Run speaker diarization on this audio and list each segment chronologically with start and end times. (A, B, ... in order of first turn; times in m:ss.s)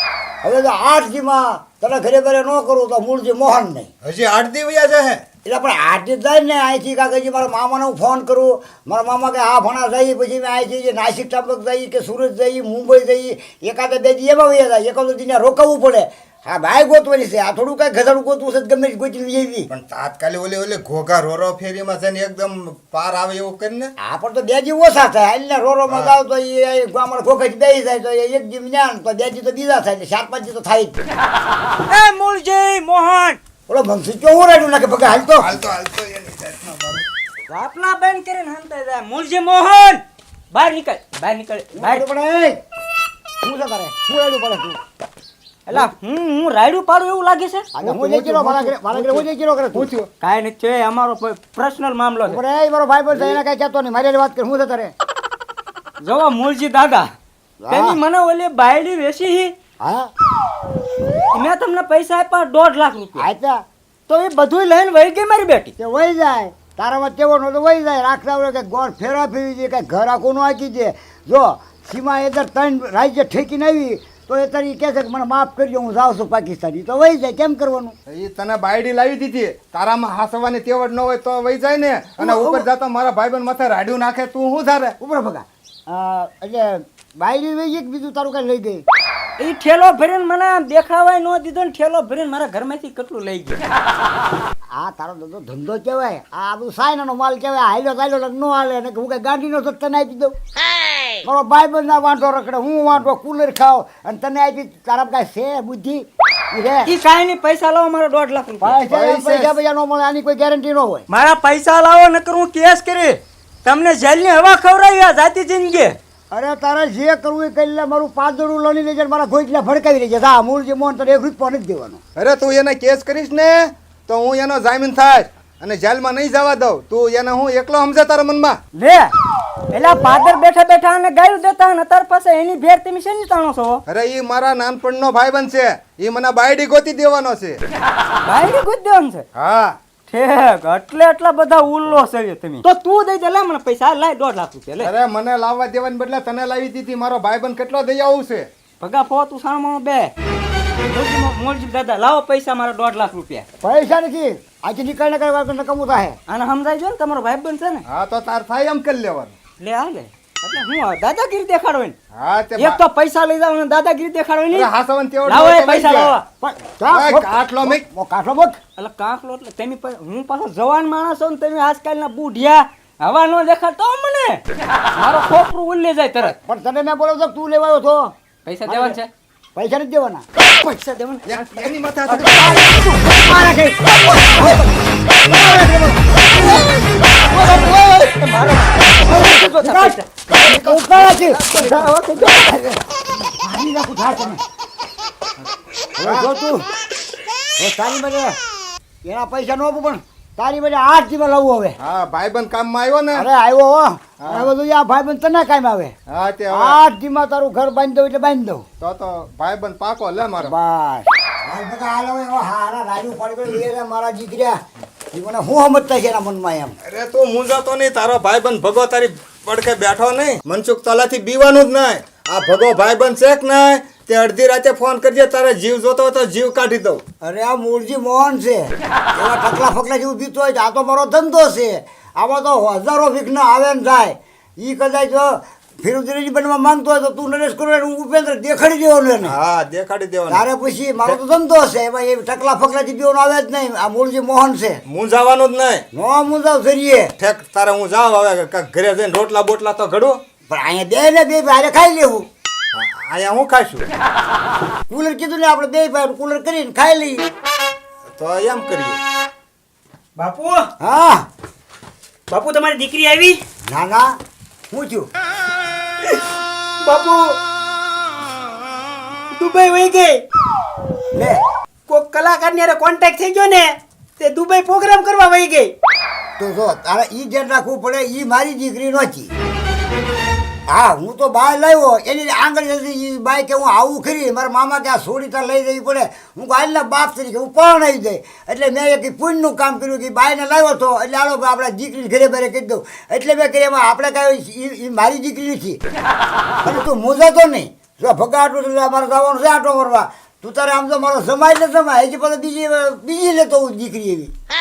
0:00.4-0:03.9 A
0:04.0-0:05.2 B
0:05.4-0:19.7 A
0:19.7-0:23.9 B
0:24.0-0:31.0 A
0:25.9-0:26.2 B
0:31.9-0:33.4 C
0:33.7-0:35.5 A
0:35.4-0:37.1 B
0:37.5-0:40.0 C
0:40.5-0:42.0 C
0:41.8-0:42.6 A
0:43.4-0:44.8 A
0:45.7-0:47.7 C
0:47.8-0:49.9 A
0:47.8-0:50.1 B
0:50.2-0:52.4 C
0:52.3-0:54.9 A
0:56.0-0:57.1 C
0:57.6-0:58.0 A
0:57.7-0:59.5 C
0:59.8-1:00.1 A
1:01.3-1:03.3 C
1:03.2-1:03.6 A
1:04.1-1:05.7 C
1:05.8-1:18.0 A
1:18.1-1:25.0 B
1:22.2-1:22.6 A
1:25.0-1:28.8 A
1:29.4-1:33.6 C
1:34.8-1:40.3 A
1:41.2-1:46.9 A
1:46.9-1:48.8 C
1:48.6-1:51.1 A
1:48.9-1:49.6 B
1:51.1-1:56.0 C
1:56.3-2:02.0 A
2:02.2-2:08.6 B
2:08.7-2:09.1 C
2:09.7-2:13.8 C
2:13.9-2:17.6 B
2:18.2-2:19.2 C
2:19.4-2:19.8 B
2:20.1-2:24.9 C
2:24.8-2:28.5 B
2:28.8-2:30.1 C
2:30.8-2:33.5 C
2:33.6-2:36.2 A
2:36.3-2:37.8 C
2:37.9-2:39.3 B
2:39.6-2:42.0 C
2:42.2-2:42.8 B
2:42.6-2:44.7 C
2:44.5-2:46.1 B
2:45.3-2:46.2 C
2:46.4-2:48.6 A
2:46.9-2:47.8 B
2:48.8-2:54.4 C
2:55.0-2:56.4 C
2:56.2-2:58.1 A
2:58.4-2:59.1 C
2:58.7-2:59.0 A
2:59.6-3:00.2 A
3:00.5-3:01.4 C
3:01.3-3:02.7 B
3:02.1-3:03.1 C
3:02.3-3:04.7 A
3:05.2-3:06.6 A
3:07.2-3:10.0 C
3:09.0-3:11.9 A
3:10.4-3:11.2 B
3:11.3-3:12.8 C
3:13.3-3:14.4 A
3:16.0-3:16.7 A
3:16.0-3:16.3 B
3:17.6-3:18.4 A
3:19.0-3:21.8 A
3:21.8-3:23.3 B
3:23.1-3:25.9 A
3:24.2-3:24.5 B
3:26.1-3:26.8 B
3:26.5-3:28.6 A
3:28.8-3:30.6 B
3:30.4-3:34.6 A
3:35.1-3:36.8 A
3:36.8-3:47.0 B
3:47.2-3:59.4 A
3:59.2-4:00.5 B
4:00.3-4:04.8 A
4:04.9-4:05.8 B
4:05.9-4:07.1 A
4:07.2-4:10.2 B
4:10.5-4:12.3 A
4:12.7-4:13.9 B
4:14.9-4:17.2 A
4:18.1-4:19.0 B
4:20.2-4:20.6 C
4:20.8-4:21.3 A
4:22.3-4:23.4 D
4:23.7-4:24.2 A
4:24.7-4:25.1 A
4:26.8-4:27.3 D
4:29.4-4:30.2 D
4:31.1-4:31.4 A
4:31.9-4:33.7 D
4:34.2-4:35.7 D
4:36.4-4:39.3 A
4:40.7-4:55.8 A
4:56.6-5:04.3 A